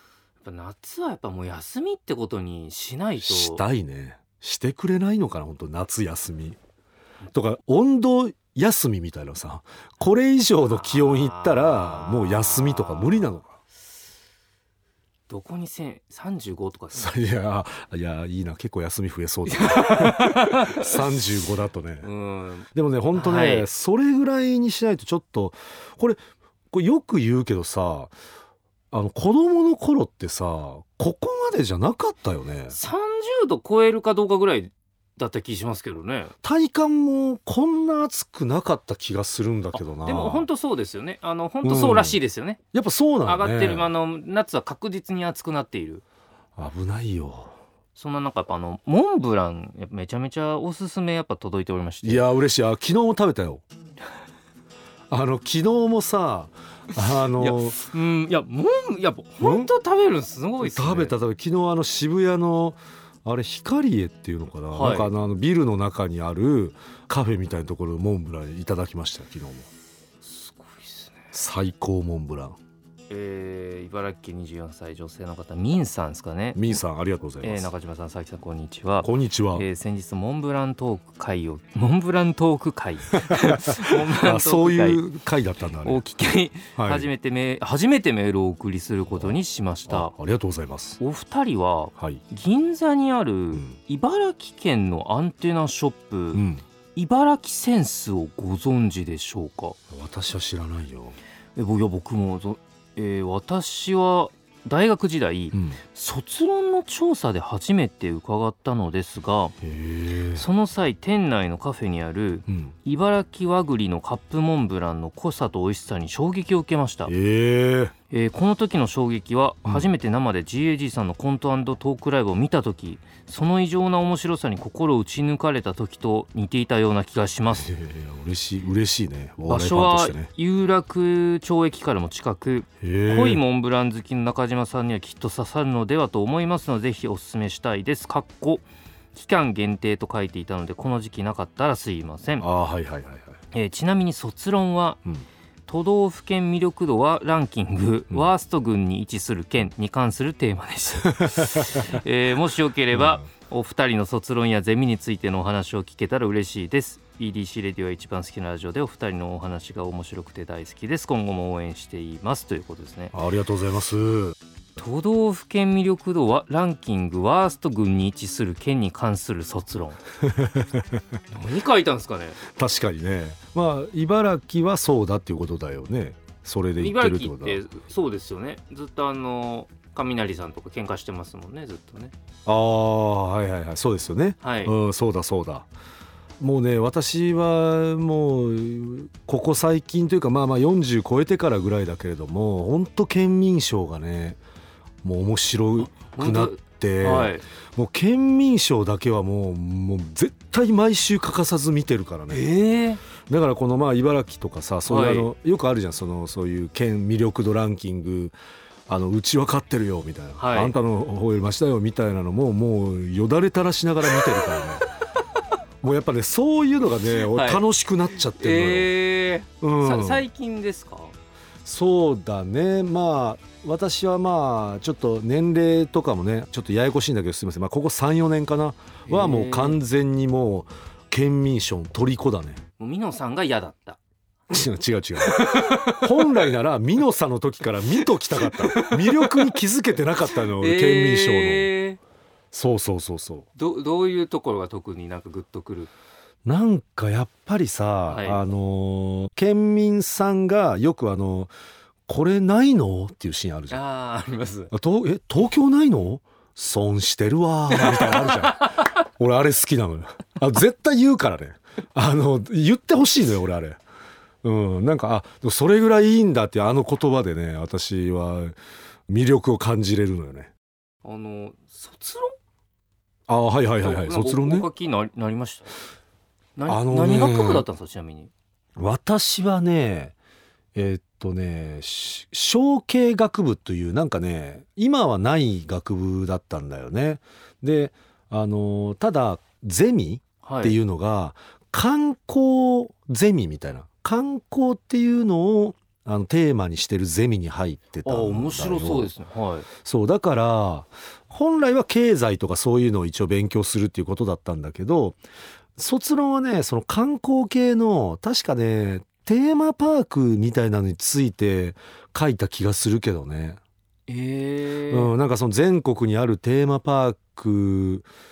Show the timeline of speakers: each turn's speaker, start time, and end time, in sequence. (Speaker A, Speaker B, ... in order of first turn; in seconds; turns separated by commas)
Speaker A: 0.4-3.6, Speaker B: 3.2-6.6, Speaker B: 7.3-13.6, Speaker A: 10.7-13.4, Speaker A: 15.3-17.1, Speaker B: 16.9-22.1, Speaker A: 19.5-21.3, Speaker A: 22.0-23.7, Speaker B: 22.7-26.2, Speaker B: 26.7-28.1, Speaker B: 28.9-32.8, Speaker A: 32.7-36.3, Speaker B: 36.4-40.5, Speaker A: 39.7-42.6, Speaker B: 41.6-42.2, Speaker B: 42.7-43.9, Speaker A: 43.2-46.0, Speaker B: 46.6-47.6, Speaker A: 48.0-52.3, Speaker B: 52.0-53.6, Speaker B: 55.1-57.8, Speaker A: 57.3-61.1, Speaker B: 59.4-59.7, Speaker B: 60.6-69.7, Speaker A: 64.7-65.1, Speaker A: 70.2-71.3, Speaker B: 71.3-72.6, Speaker A: 73.1-76.7, Speaker B: 76.6-77.7, Speaker A: 77.4-85.0, Speaker B: 79.0-79.7, Speaker B: 83.2-86.0, Speaker A: 85.8-90.1, Speaker B: 86.8-87.1, Speaker B: 89.1-89.4, Speaker B: 89.9-91.0, Speaker A: 91.0-96.4, Speaker B: 96.3-96.6, Speaker A: 97.0-99.8, Speaker B: 99.9-101.2, Speaker A: 101.6-109.5, Speaker B: 105.5-105.8, Speaker B: 109.6-110.5, Speaker A: 110.3-117.1, Speaker B: 112.5-112.7, Speaker B: 117.1-117.9, Speaker A: 118.1-127.7, Speaker B: 119.7-119.9, Speaker B: 127.5-130.3, Speaker A: 129.5-142.5, Speaker B: 132.8-133.4, Speaker B: 142.4-143.4, Speaker A: 143.5-145.0, Speaker A: 145.7-163.1, Speaker B: 151.2-151.9, Speaker B: 152.9-153.2, Speaker B: 163.1-164.4, Speaker A: 164.8-170.0, Speaker B: 170.2-171.0, Speaker A: 171.3-172.4, Speaker B: 172.4-177.6, Speaker A: 176.8-182.1, Speaker B: 182.5-185.7, Speaker A: 184.4-184.8, Speaker B: 186.4-194.4, Speaker B: 195.0-202.5, Speaker A: 196.0-197.4, Speaker A: 202.3-203.0, Speaker B: 203.3-208.3, Speaker A: 204.9-205.3, Speaker B: 208.9-214.9, Speaker A: 210.4-210.8, Speaker B: 215.8-218.9, Speaker A: 217.2-217.6, Speaker A: 218.3-221.1, Speaker B: 219.6-220.3, Speaker B: 221.6-232.6, Speaker A: 229.1-229.8, Speaker A: 232.8-234.0, Speaker B: 234.5-241.7, Speaker A: 235.2-236.5, Speaker A: 238.4-239.5, Speaker A: 240.3-242.0, Speaker B: 242.5-243.5, Speaker A: 243.6-245.9, Speaker B: 246.4-251.5, Speaker A: 248.1-248.4, Speaker B: 252.1-253.8, Speaker A: 253.7-254.7, Speaker B: 254.7-263.8, Speaker A: 257.7-259.0, Speaker B: 264.4-268.5, Speaker B: 269.1-270.5, Speaker A: 271.1-272.4, Speaker B: 273.3-274.7, Speaker A: 273.8-275.7, Speaker A: 276.6-278.3, Speaker B: 276.7-277.6, Speaker B: 278.8-280.1, Speaker B: 280.8-299.1, Speaker A: 290.4-290.8, Speaker A: 298.1-299.7, Speaker B: 299.8-305.2, Speaker B: 305.8-313.6, Speaker A: 314.1-315.1, Speaker B: 314.9-318.1